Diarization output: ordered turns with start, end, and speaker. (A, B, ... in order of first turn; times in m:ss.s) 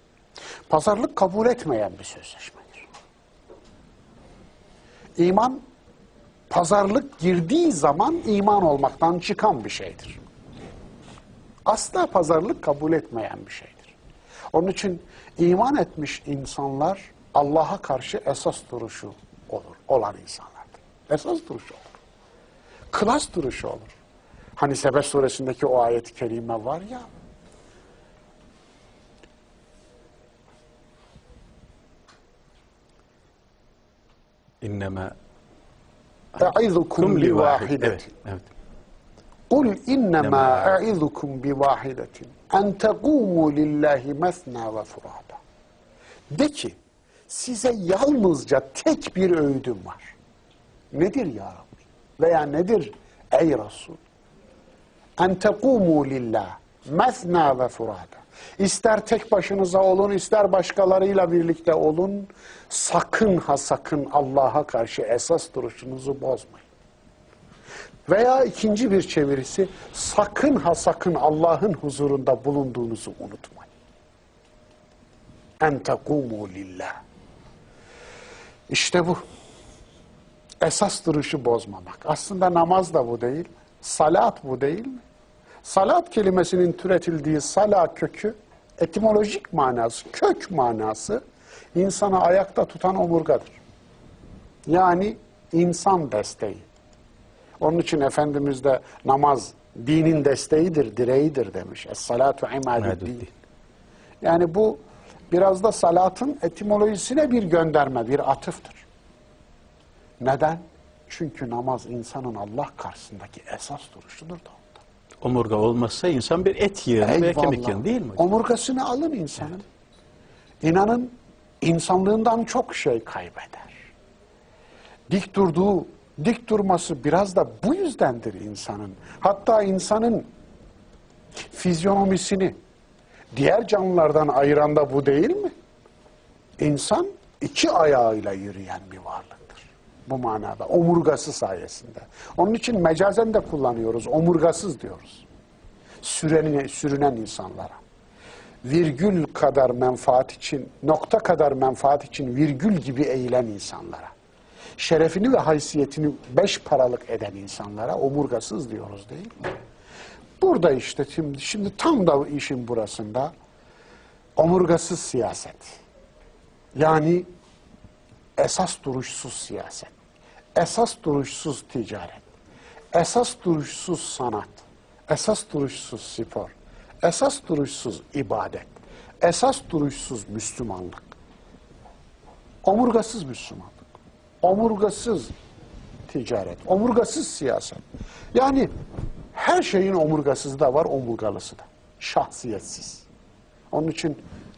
0:00.7-0:02.9 A
0:05.2-0:05.6 A
0:06.5-0:10.2 A
0:11.7-0:14.0 A
0:14.5-0:22.0 A
0:22.9-0:24.0 A
0:24.6-0:27.1 A
0:34.6-0:35.1 B
0:36.4-0:38.2 A
0:37.0-0:38.5 B
0:39.5-0:45.4 A
0:40.2-0:40.7 B
0:46.3-0:46.8 A
0:47.3-0:50.2 A
0:50.9-0:54.0 A
0:55.2-1:06.7 A
1:08.1-1:13.7 A
1:15.6-1:17.0 A
1:18.7-1:19.2 A
1:20.6-1:25.0 A
1:25.6-1:31.2 A
1:31.8-1:33.6 A
1:34.7-1:36.7 A
1:37.6-1:43.3 A
1:42.8-1:43.3 B
1:44.2-1:48.8 A
1:50.2-1:54.8 A
1:55.2-1:58.2 B
1:57.0-1:59.6 A
2:00.6-2:03.8 A
2:05.1-2:10.3 A
2:11.5-2:12.6 A
2:13.3-2:15.5 A
2:16.6-2:25.3 A
2:26.0-2:27.8 A
2:28.6-2:34.1 A
2:34.8-2:39.5 A
2:40.4-2:43.3 A
2:44.4-2:45.8 A
2:46.8-2:47.3 A
2:48.4-2:49.9 A
2:50.6-2:52.2 A
2:52.9-3:01.2 A
3:02.6-3:03.8 A
3:04.4-3:05.3 A
3:06.1-3:08.7 A
3:09.3-3:13.1 A
3:13.7-3:14.2 A